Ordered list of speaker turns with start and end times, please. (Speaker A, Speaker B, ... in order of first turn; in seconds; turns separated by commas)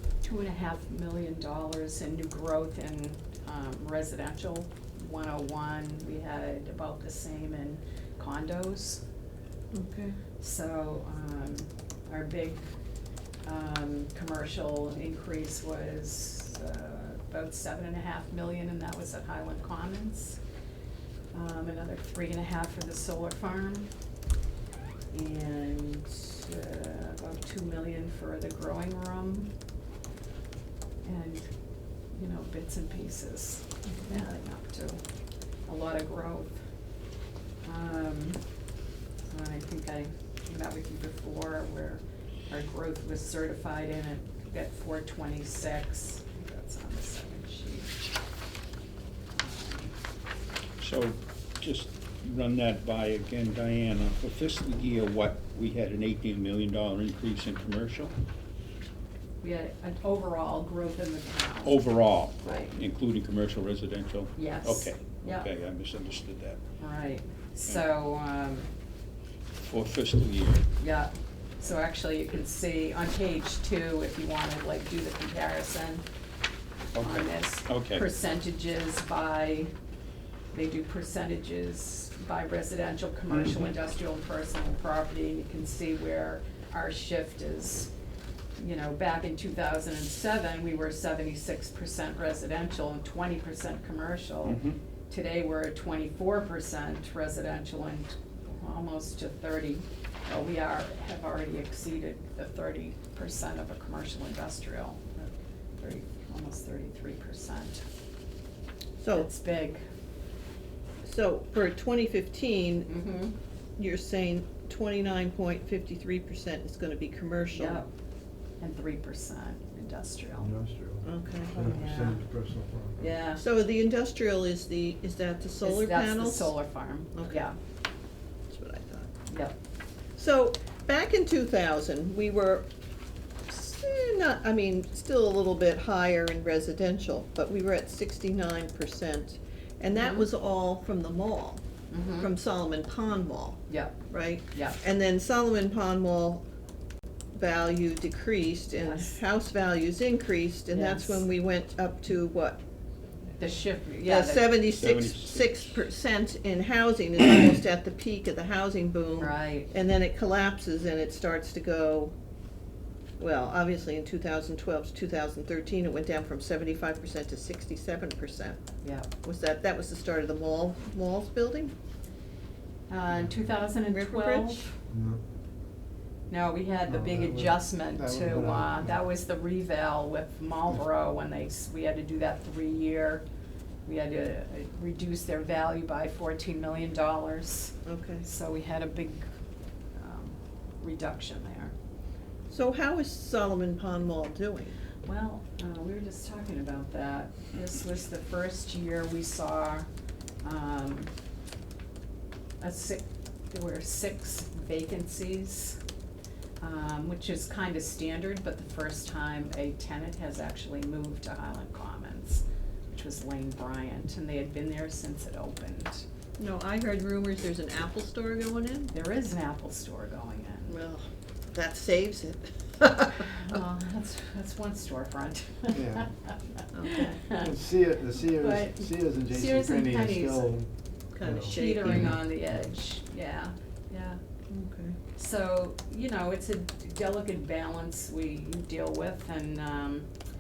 Speaker A: 0.2-9.0, Speaker B: 9.7-10.1, Speaker A: 10.4-12.6, Speaker A: 13.4-20.4, Speaker A: 21.3-23.9, Speaker A: 25.1-29.5, Speaker A: 31.0-31.5, Speaker A: 32.1-35.0, Speaker B: 33.9-34.2, Speaker A: 35.7-36.6, Speaker A: 37.6-38.4, Speaker A: 39.3-48.0, Speaker A: 49.4-49.9, Speaker C: 50.8-58.1, Speaker A: 59.4-62.8, Speaker C: 61.6-66.6, Speaker A: 64.3-65.5, Speaker A: 66.8-68.7, Speaker C: 69.7-70.7, Speaker A: 70.8-76.0, Speaker C: 77.0-78.0, Speaker A: 77.0-79.7, Speaker A: 80.5-87.9, Speaker A: 88.6-107.8, Speaker C: 94.5-94.8, Speaker B: 109.0-109.3, Speaker A: 109.1-109.8, Speaker B: 111.0-112.9, Speaker A: 112.9-113.3, Speaker B: 113.8-117.8, Speaker A: 117.6-117.9, Speaker A: 118.6-120.5, Speaker D: 120.4-123.1, Speaker B: 121.0-121.7, Speaker A: 121.5-122.2, Speaker A: 123.0-123.4, Speaker B: 123.3-126.6, Speaker A: 125.6-127.6, Speaker B: 127.2-127.5, Speaker B: 128.5-129.1, Speaker A: 129.3-129.6, Speaker B: 130.2-132.7, Speaker B: 133.5-146.4, Speaker A: 139.9-140.3, Speaker A: 141.9-142.3, Speaker A: 143.7-144.0, Speaker A: 144.5-144.8, Speaker B: 147.3-152.6, Speaker A: 148.8-149.2, Speaker A: 150.7-151.2, Speaker A: 153.3-154.5, Speaker B: 154.1-162.1, Speaker C: 154.7-155.6, Speaker A: 159.2-159.7, Speaker B: 163.2-168.6, Speaker A: 168.8-169.1, Speaker B: 169.2-171.7, Speaker A: 172.9-174.8, Speaker B: 173.9-174.7, Speaker D: 174.9-175.2, Speaker A: 176.3-183.2, Speaker D: 176.8-179.0, Speaker A: 183.9-189.3, Speaker B: 187.9-188.2, Speaker A: 189.9-191.7, Speaker B: 192.5-194.8, Speaker A: 195.1-199.9, Speaker A: 200.4-201.1, Speaker A: 202.6-205.8, Speaker A: 206.6-216.1, Speaker B: 216.4-218.9, Speaker A: 218.9-220.8, Speaker B: 220.7-223.5, Speaker A: 223.2-227.5, Speaker D: 225.7-226.1, Speaker B: 226.7-227.2, Speaker D: 227.3-230.7, Speaker A: 228.3-230.5, Speaker B: 231.1-232.1, Speaker D: 231.2-232.2, Speaker A: 231.4-234.2, Speaker B: 234.5-234.9, Speaker A: 235.2-240.1